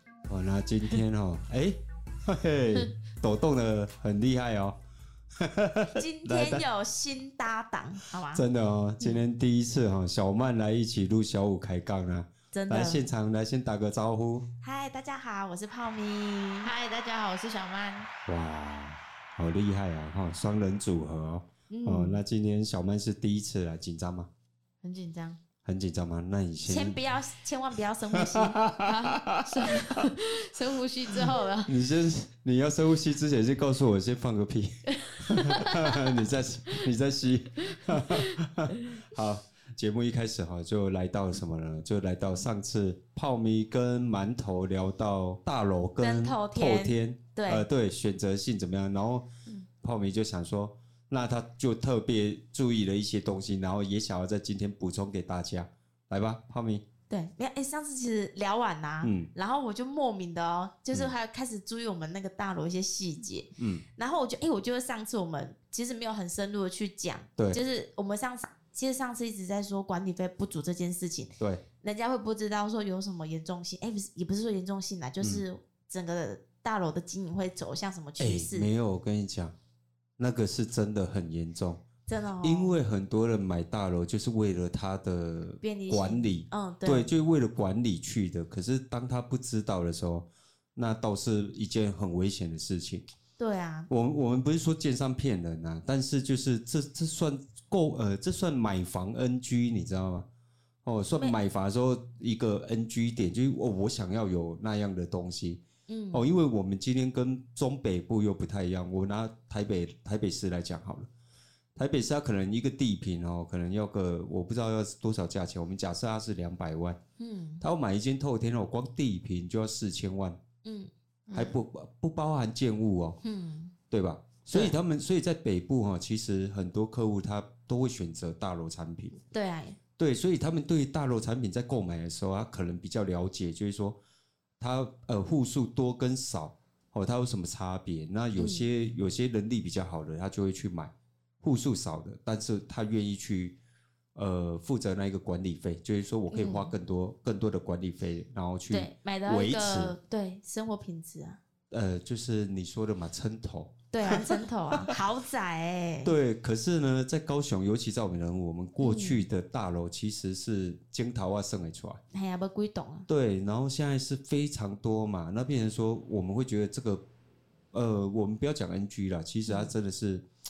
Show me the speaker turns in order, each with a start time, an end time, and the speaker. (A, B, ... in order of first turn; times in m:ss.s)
0:00.3-0:04.8 A
0:05.4-0:06.6 A
0:06.0-0:08.4 B
0:08.3-0:14.5 A
0:12.5-0:13.0 B
0:14.6-0:16.7 B
0:16.6-0:18.1 C
0:18.3-0:24.3 A
0:21.7-0:22.2 B
0:24.8-0:25.4 C
0:25.6-0:27.0 A
0:26.7-0:28.6 B
0:28.2-0:30.0 A
0:28.8-0:31.7 C
0:31.1-0:49.3 A
0:34.9-0:36.1 C
0:37.7-0:38.4 C
0:46.0-0:47.6 B
0:49.8-0:56.8 A
0:57.1-1:18.7 B
0:59.0-0:59.3 A
1:03.6-1:03.8 A
1:18.2-1:19.6 A
1:20.2-1:21.8 A
1:22.1-1:22.8 B
1:22.4-1:33.0 A
1:25.6-1:27.1 B
1:33.4-1:33.9 B
1:33.9-1:40.3 A
1:40.8-1:45.6 A
1:45.9-1:46.3 B
1:46.1-1:51.1 A
1:51.8-1:57.0 A
1:57.2-1:57.6 B
1:57.6-2:00.4 A
2:00.6-2:00.9 B
2:01.3-2:01.6 C
2:01.3-2:03.2 A
2:03.2-2:03.8 B
2:03.9-2:09.1 A
2:09.2-2:09.8 B
2:10.0-2:14.0 A
2:14.6-2:23.6 A
2:18.4-2:18.7 B
2:24.2-2:30.0 A
2:26.3-2:26.7 B
2:28.7-2:31.4 B
2:31.7-2:35.0 A
2:33.9-2:36.1 B
2:36.0-2:42.0 A
2:38.8-2:39.2 B
2:42.1-2:43.1 B
2:43.1-2:47.0 A
2:47.7-2:50.2 A